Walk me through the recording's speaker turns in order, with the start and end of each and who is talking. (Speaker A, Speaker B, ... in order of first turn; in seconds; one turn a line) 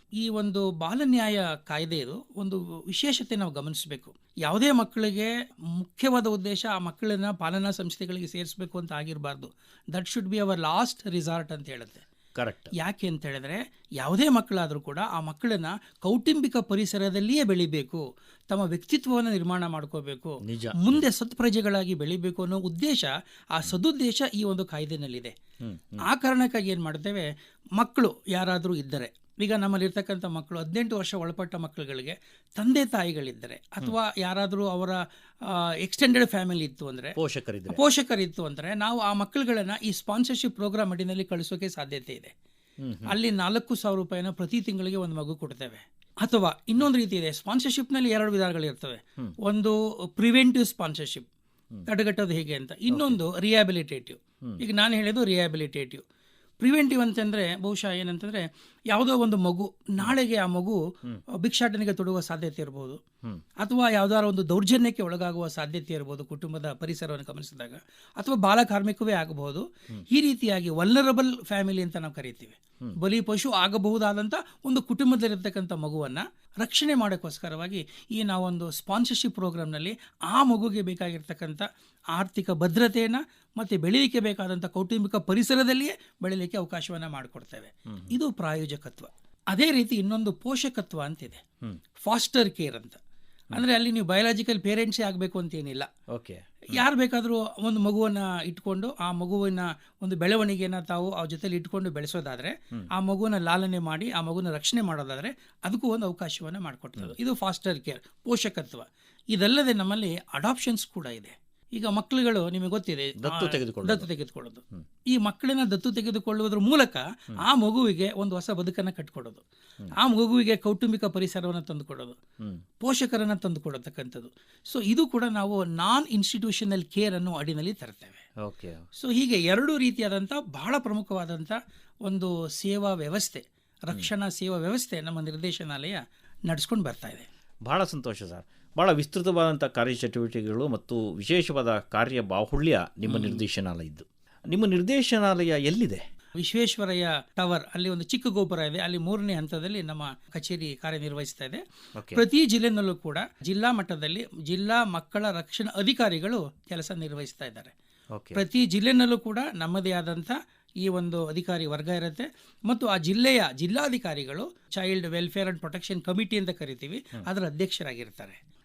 Speaker A: 0.2-12.0
Speaker B: 12.4-12.7
Speaker A: 12.8-25.3
Speaker B: 20.5-21.0
Speaker B: 25.6-26.0
Speaker A: 26.0-37.2
Speaker B: 37.2-37.8
Speaker A: 37.7-42.3
Speaker B: 42.8-43.1
Speaker A: 43.1-51.3
Speaker A: 51.9-56.0
Speaker A: 56.6-60.8
Speaker A: 61.4-63.0
Speaker A: 63.6-91.4
Speaker A: 92.0-93.0
Speaker A: 93.5-95.9
Speaker B: 96.1-96.8
Speaker A: 96.7-119.4
Speaker B: 113.2-114.0
Speaker A: 120.0-122.2
Speaker A: 122.8-128.2
Speaker B: 128.4-128.8
Speaker A: 129.0-137.3
Speaker B: 137.7-146.0
Speaker A: 143.1-143.4
Speaker A: 146.4-151.6
Speaker A: 152.1-157.7
Speaker B: 158.1-158.4
Speaker A: 158.4-168.4